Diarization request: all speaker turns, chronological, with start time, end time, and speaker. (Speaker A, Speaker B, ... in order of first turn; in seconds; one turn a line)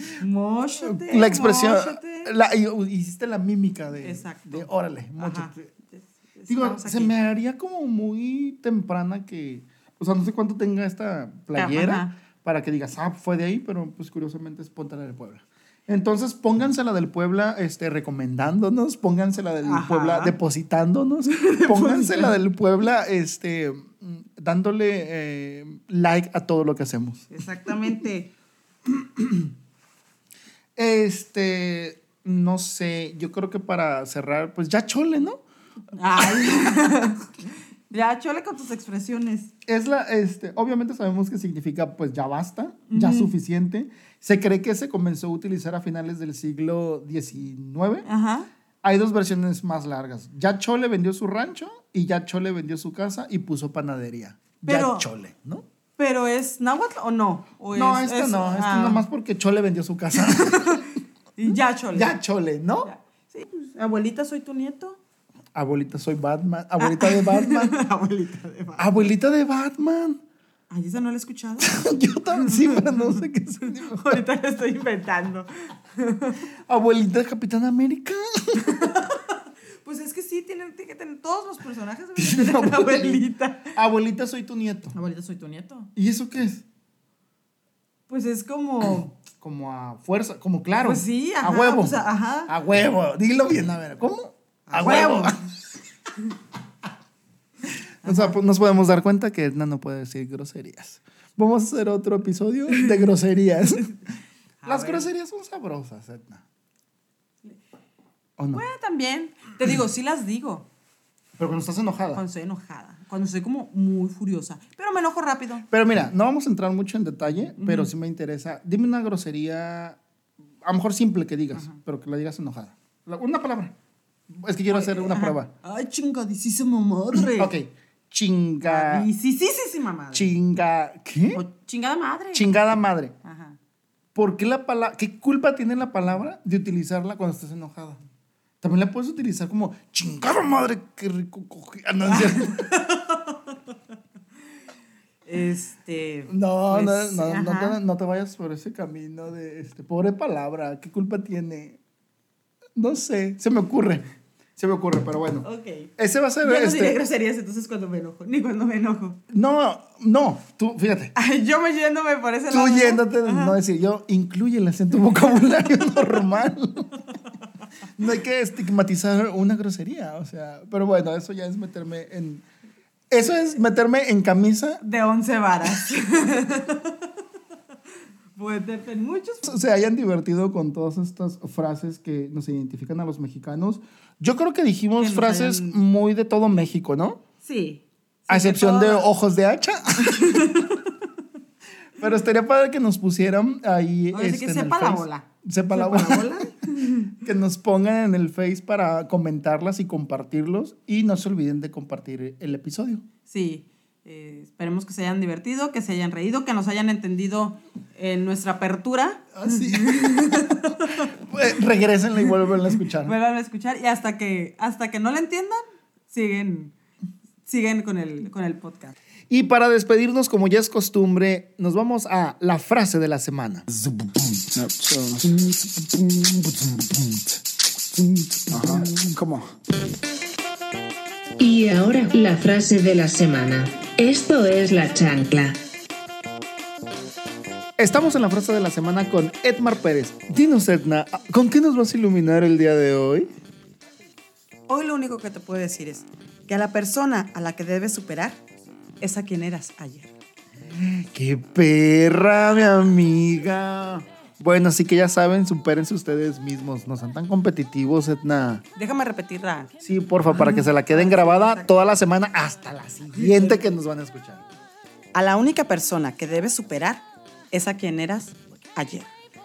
Speaker A: 0.2-2.3
Speaker B: 0.8-5.7
Speaker A: 4.0-7.1
Speaker B: 6.5-27.3
Speaker A: 11.6-12.1
Speaker A: 19.6-20.4
Speaker A: 21.3-22.4
Speaker A: 27.3-28.3
Speaker B: 28.9-29.5
Speaker B: 30.8-35.4
Speaker A: 35.9-37.3
Speaker B: 36.2-36.9
Speaker A: 37.9-39.5
Speaker B: 39.7-48.1
Speaker A: 42.9-43.3
Speaker A: 48.0-48.5
Speaker B: 48.8-55.7
Speaker A: 54.6-55.1
Speaker A: 56.0-59.0
Speaker B: 57.7-60.9
Speaker A: 60.1-62.1
Speaker B: 61.5-62.9
Speaker A: 62.8-65.0
Speaker B: 65.5-67.8
Speaker A: 66.8-69.1
Speaker B: 68.8-70.2
Speaker A: 70.7-71.8
Speaker B: 71.6-74.2
Speaker A: 72.4-76.4
Speaker B: 76.7-78.9
Speaker A: 78.6-83.8
Speaker B: 82.2-85.0
Speaker A: 84.9-85.9
Speaker B: 86.0-86.6
Speaker A: 88.1-89.2
Speaker B: 89.4-95.5
Speaker A: 90.8-92.5
Speaker A: 94.7-95.5
Speaker A: 98.0-98.4
Speaker B: 98.0-103.9
Speaker A: 104.6-105.1
Speaker B: 104.7-106.4
Speaker B: 108.4-108.6
Speaker A: 108.5-110.7
Speaker B: 111.4-112.2
Speaker A: 112.1-115.7
Speaker B: 115.7-120.0
Speaker A: 117.6-117.9
Speaker B: 120.6-123.8
Speaker A: 121.5-121.8
Speaker B: 124.3-125.5
Speaker A: 124.7-127.5
Speaker B: 127.1-129.1
Speaker A: 128.6-130.3
Speaker B: 130.1-131.4
Speaker A: 131.3-132.5
Speaker B: 132.3-133.2
Speaker A: 133.2-133.6
Speaker B: 134.2-138.0
Speaker B: 138.6-142.7
Speaker A: 142.1-143.5
Speaker A: 145.2-147.8
Speaker B: 146.3-151.8
Speaker B: 152.8-155.5
Speaker A: 155.4-155.9
Speaker B: 156.0-157.0
Speaker A: 156.4-159.2
Speaker B: 159.3-161.1
Speaker A: 161.2-163.6
Speaker B: 162.5-167.0
Speaker B: 168.0-172.4
Speaker B: 173.1-174.8
Speaker A: 174.8-177.1
Speaker A: 178.4-179.6
Speaker B: 179.4-187.2
Speaker A: 185.0-185.8
Speaker A: 187.4-189.1
Speaker B: 188.3-190.5
Speaker A: 190.0-190.9
Speaker B: 192.0-196.5
Speaker A: 194.1-197.2
Speaker B: 197.2-203.0
Speaker A: 203.3-211.1
Speaker B: 209.3-213.2
Speaker A: 213.0-216.8
Speaker A: 217.5-218.9
Speaker B: 219.3-223.7
Speaker B: 224.6-225.5
Speaker B: 228.5-229.4
Speaker C: 231.4-235.6
Speaker B: 237.8-243.3
Speaker A: 244.7-248.4
Speaker A: 249.0-250.1
Speaker B: 250.7-258.6
Speaker A: 258.8-259.7
Speaker B: 259.8-264.4
Speaker A: 260.3-261.8
Speaker A: 263.2-263.7
Speaker A: 265.1-269.1